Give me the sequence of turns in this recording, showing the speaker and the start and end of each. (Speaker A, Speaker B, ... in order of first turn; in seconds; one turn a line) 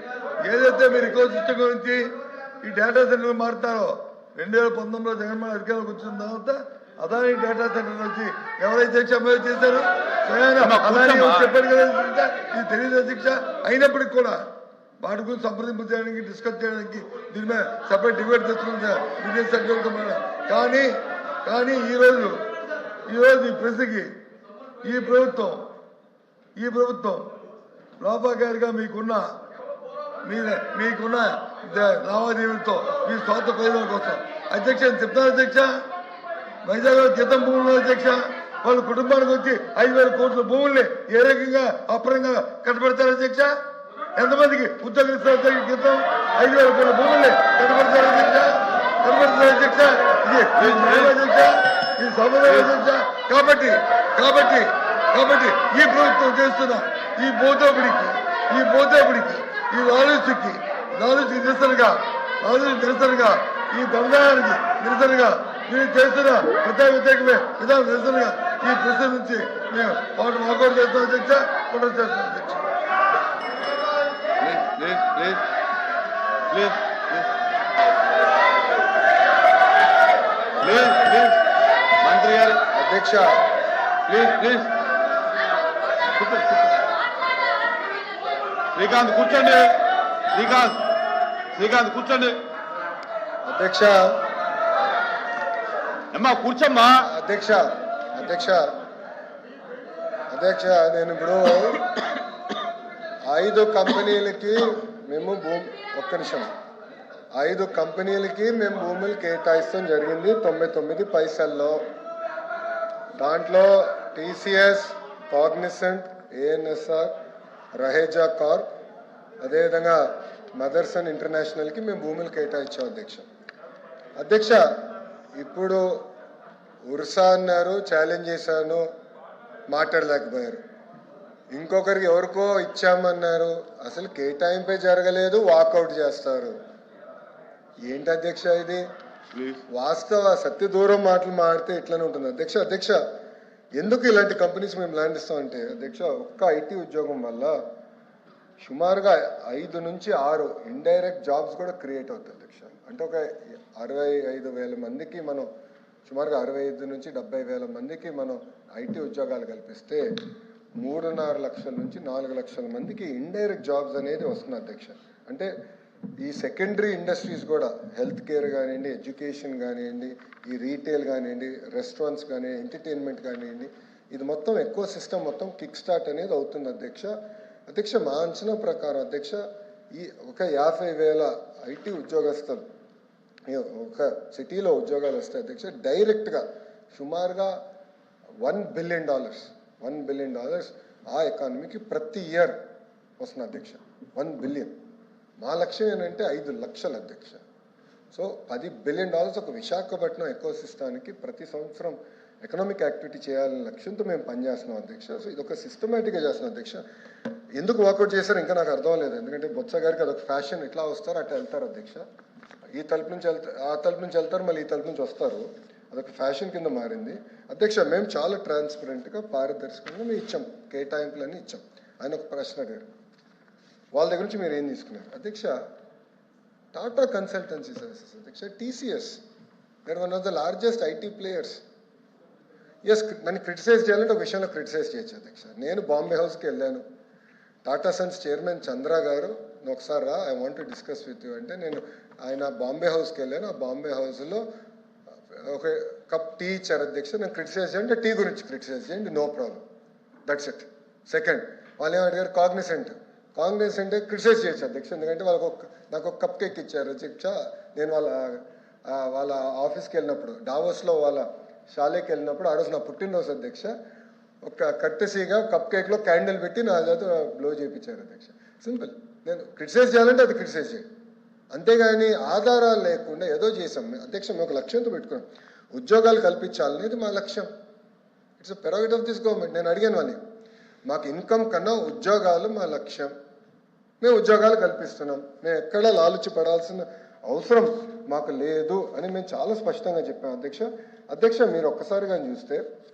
Speaker A: 0.4-14.4
Speaker B: 10.6-11.5
Speaker A: 15.0-20.9
Speaker A: 21.4-22.4
Speaker A: 23.1-24.1
Speaker A: 24.8-25.7
Speaker A: 26.6-27.3
Speaker A: 28.0-29.4
Speaker A: 30.2-35.8
Speaker A: 36.6-43.6
Speaker A: 44.1-72.7
Speaker B: 50.6-51.1
Speaker B: 74.4-75.5
Speaker B: 76.5-77.3
Speaker B: 80.6-81.4
Speaker B: 82.0-82.6
Speaker C: 82.7-83.4
Speaker B: 84.1-84.7
Speaker B: 86.1-86.8
Speaker B: 88.7-90.9
Speaker B: 91.5-92.4
Speaker C: 93.5-94.2
Speaker B: 96.1-97.0
Speaker C: 97.0-98.6
Speaker C: 100.3-101.8
Speaker C: 103.3-106.5
Speaker C: 107.4-111.8
Speaker C: 113.2-117.1
Speaker C: 117.8-118.7
Speaker C: 119.4-123.3
Speaker C: 124.2-124.7
Speaker C: 125.4-126.1
Speaker C: 126.9-128.8
Speaker C: 129.7-130.6
Speaker C: 131.5-136.6
Speaker C: 137.9-138.8
Speaker B: 139.3-139.6
Speaker C: 139.7-143.0
Speaker C: 143.8-147.6
Speaker C: 148.6-155.5
Speaker C: 156.1-160.1
Speaker C: 160.8-165.5
Speaker C: 166.2-177.1
Speaker C: 177.7-182.6
Speaker C: 183.5-187.6
Speaker C: 188.4-192.6
Speaker C: 193.2-194.7
Speaker C: 195.4-197.4
Speaker C: 198.1-206.8
Speaker C: 207.6-212.0
Speaker C: 212.8-222.9
Speaker C: 223.9-225.6
Speaker C: 226.7-229.2
Speaker C: 229.9-231.6
Speaker C: 232.8-236.8
Speaker C: 237.6-244.4
Speaker C: 245.4-249.6
Speaker C: 250.2-263.7
Speaker C: 264.4-270.9
Speaker C: 271.5-277.5
Speaker C: 278.4-280.2
Speaker C: 280.9-283.1
Speaker C: 284.0-292.6